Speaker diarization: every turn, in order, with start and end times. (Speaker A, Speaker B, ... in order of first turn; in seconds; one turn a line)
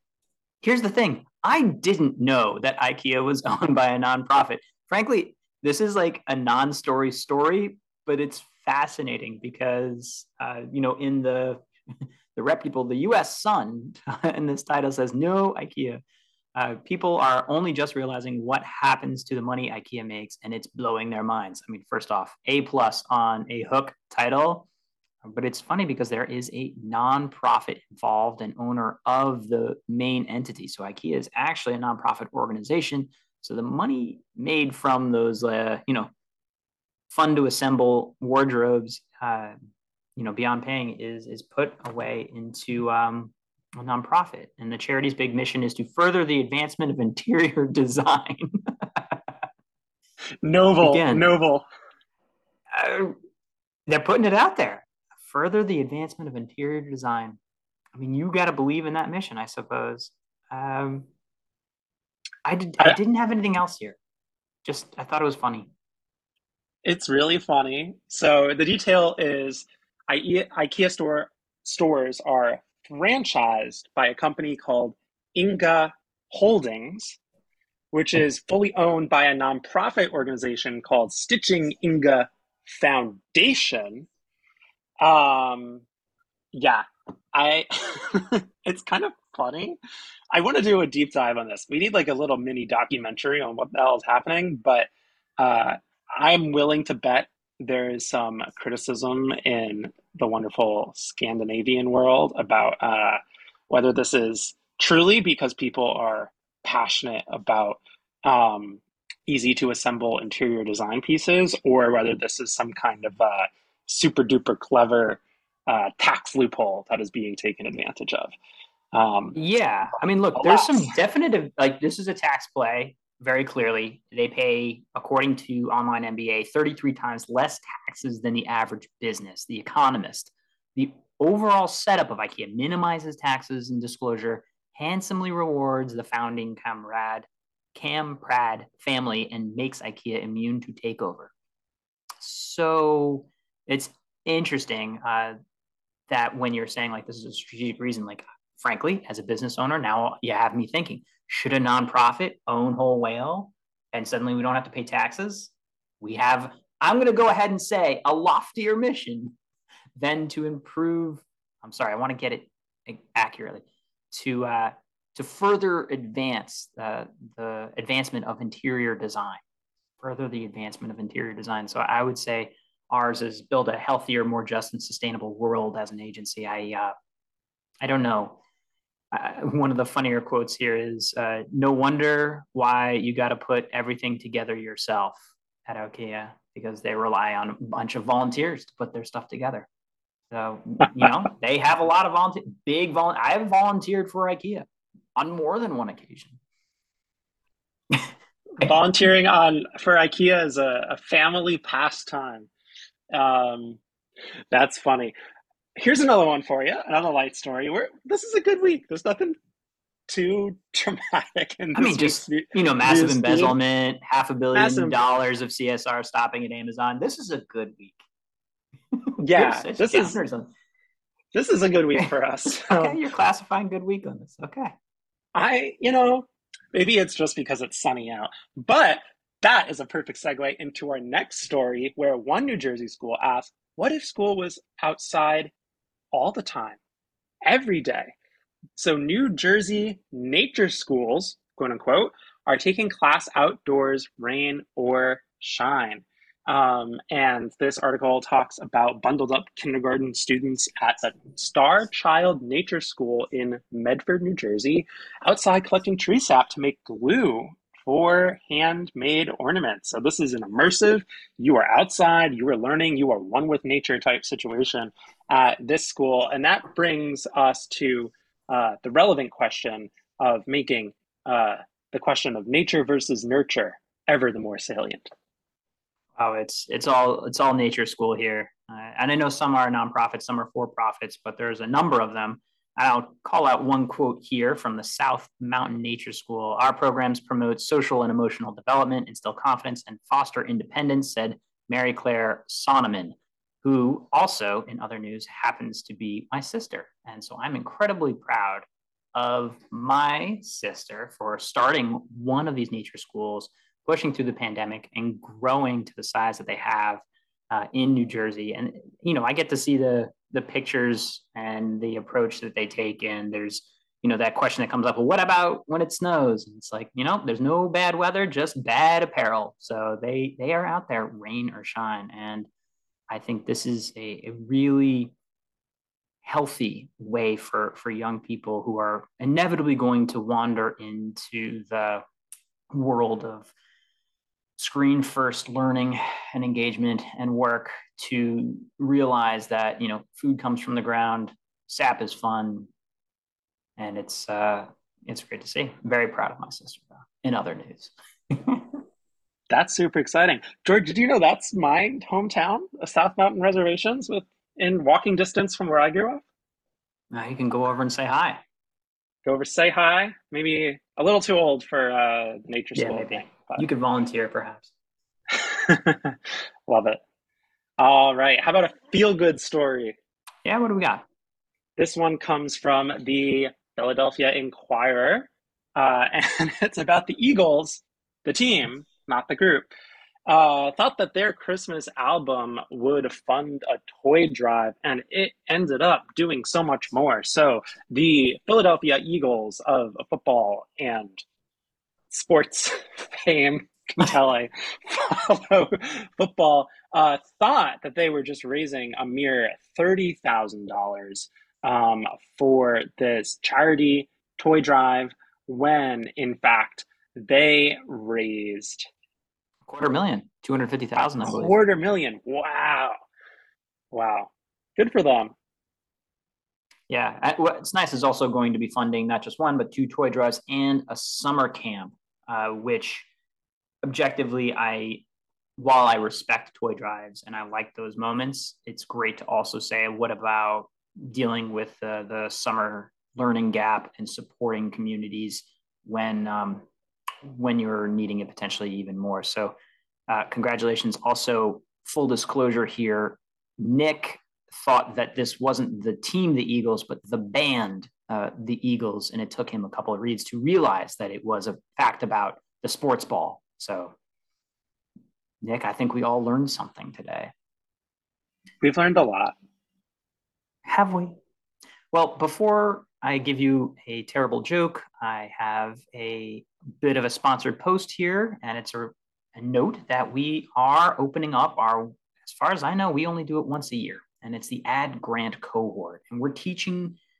Speaker A: 0.6-11.6
Speaker A: 12.3-16.0
Speaker A: 16.5-24.7
Speaker A: 25.2-36.1
Speaker A: 37.1-39.5
Speaker A: 40.2-49.2
Speaker B: 50.4-51.6
Speaker A: 50.8-51.3
Speaker A: 52.7-53.1
Speaker A: 53.9-57.4
Speaker A: 57.9-61.1
Speaker A: 62.4-64.0
Speaker A: 64.6-65.7
Speaker B: 66.8-77.2
Speaker B: 77.9-84.1
Speaker B: 85.0-85.8
Speaker B: 86.5-89.8
Speaker B: 90.3-118.3
Speaker B: 118.9-119.4
Speaker A: 119.3-141.3
Speaker B: 120.3-120.9
Speaker A: 142.2-145.3
Speaker A: 146.1-159.3
Speaker A: 159.9-169.4
Speaker A: 170.0-176.9
Speaker A: 177.8-178.4
Speaker A: 179.1-189.7
Speaker A: 190.3-196.4
Speaker B: 198.6-202.5
Speaker B: 203.1-203.8
Speaker B: 204.5-205.1
Speaker B: 205.8-209.3
Speaker B: 210.1-213.6
Speaker A: 211.7-218.0
Speaker B: 214.5-215.0
Speaker A: 218.9-220.5
Speaker B: 219.2-220.2
Speaker B: 221.3-223.0
Speaker A: 222.0-224.7
Speaker B: 225.3-235.5
Speaker B: 236.1-236.8
Speaker B: 237.4-238.1
Speaker B: 238.8-275.1
Speaker A: 276.2-322.5
Speaker A: 323.1-325.1
Speaker A: 326.2-332.0
Speaker A: 332.7-333.5
Speaker A: 334.6-342.7
Speaker A: 343.8-348.8
Speaker B: 349.5-356.2
Speaker A: 357.1-358.4
Speaker B: 359.2-363.6
Speaker A: 362.7-364.7
Speaker B: 365.3-367.0
Speaker B: 367.8-369.9
Speaker A: 370.4-371.0
Speaker B: 371.8-379.7
Speaker B: 380.3-391.2
Speaker B: 392.1-408.9
Speaker A: 409.7-411.6
Speaker B: 411.2-412.9
Speaker B: 413.9-415.3
Speaker A: 416.9-423.1
Speaker A: 423.8-425.0
Speaker A: 425.6-436.6
Speaker A: 437.2-439.5
Speaker A: 440.1-453.9
Speaker A: 455.4-457.3
Speaker B: 458.6-459.4
Speaker A: 460.6-461.1
Speaker A: 461.9-477.0